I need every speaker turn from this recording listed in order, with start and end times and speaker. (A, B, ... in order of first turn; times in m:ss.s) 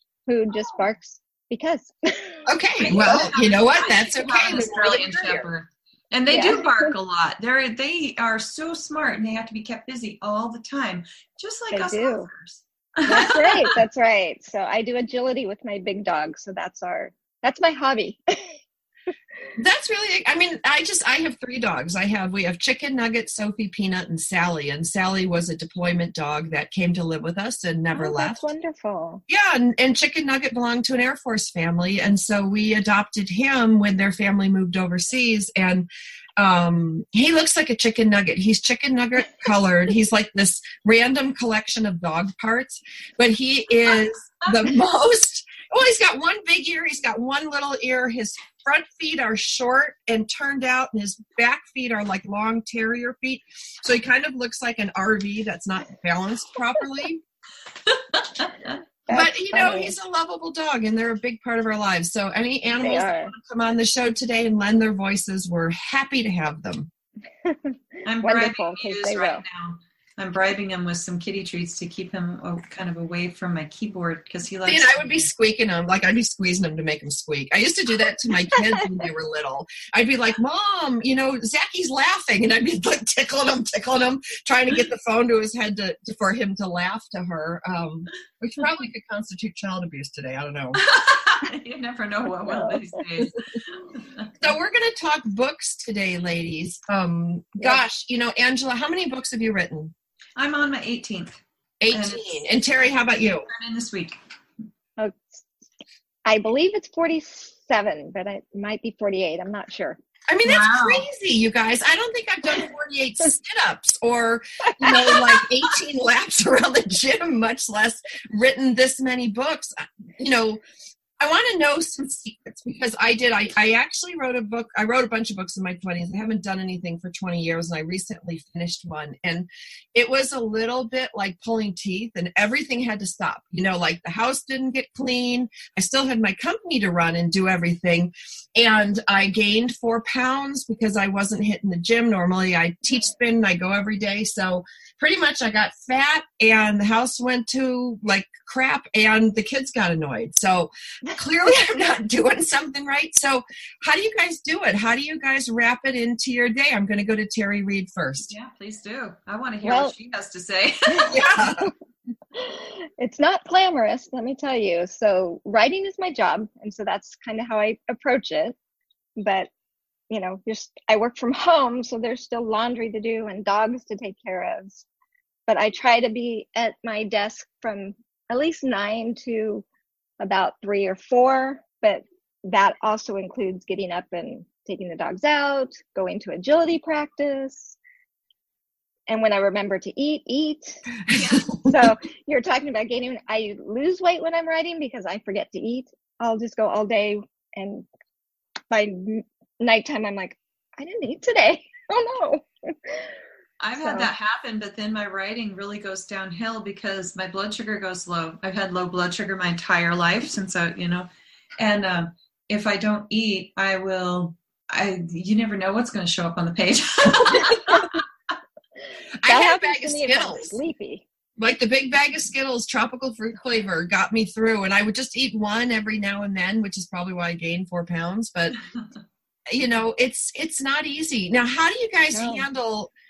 0:00.3-0:02.4 A
0:02.5-0:05.5 B
0:02.8-0:13.8 C
0:06.3-0:06.9 A
0:11.7-0:12.3 A
0:13.1-0:18.6 A
0:19.6-0:28.4 B
0:27.9-0:29.2 A
0:29.3-0:57.2 B
0:57.9-0:58.6 C
0:59.1-1:00.0 A
0:59.1-1:06.9 B
1:02.8-1:03.3 A
1:07.4-1:09.4 A
1:08.1-1:15.3 C
1:14.7-1:30.8 B
1:30.8-1:34.3 C
1:32.5-1:32.8 A
1:34.4-1:39.9 B
1:40.4-1:41.4 C
1:41.8-1:43.5 B
1:41.9-1:42.4 C
1:43.5-1:44.2 C
1:45.0-1:45.5 A
1:46.2-1:50.0 A
1:50.3-2:00.6 B
1:50.4-1:51.0 C
2:01.2-2:38.3 B
2:38.3-2:41.2 C
2:39.6-2:39.9 A
2:40.9-2:41.7 A
2:41.1-2:41.7 B
2:42.3-2:48.6 A
2:49.2-2:49.5 A
2:50.1-2:54.8 A
2:55.5-2:59.6 A
3:00.2-3:07.8 A
3:09.1-3:10.8 A
3:11.1-3:11.8 B
3:11.1-3:11.4 C
3:11.7-3:17.9 A
3:18.7-3:23.2 A
3:23.6-3:38.0 C
3:23.8-3:24.1 A
3:39.2-3:40.6 B
3:39.3-3:41.0 A
3:41.4-3:48.6 B
3:49.5-3:52.9 B
3:52.1-3:52.4 A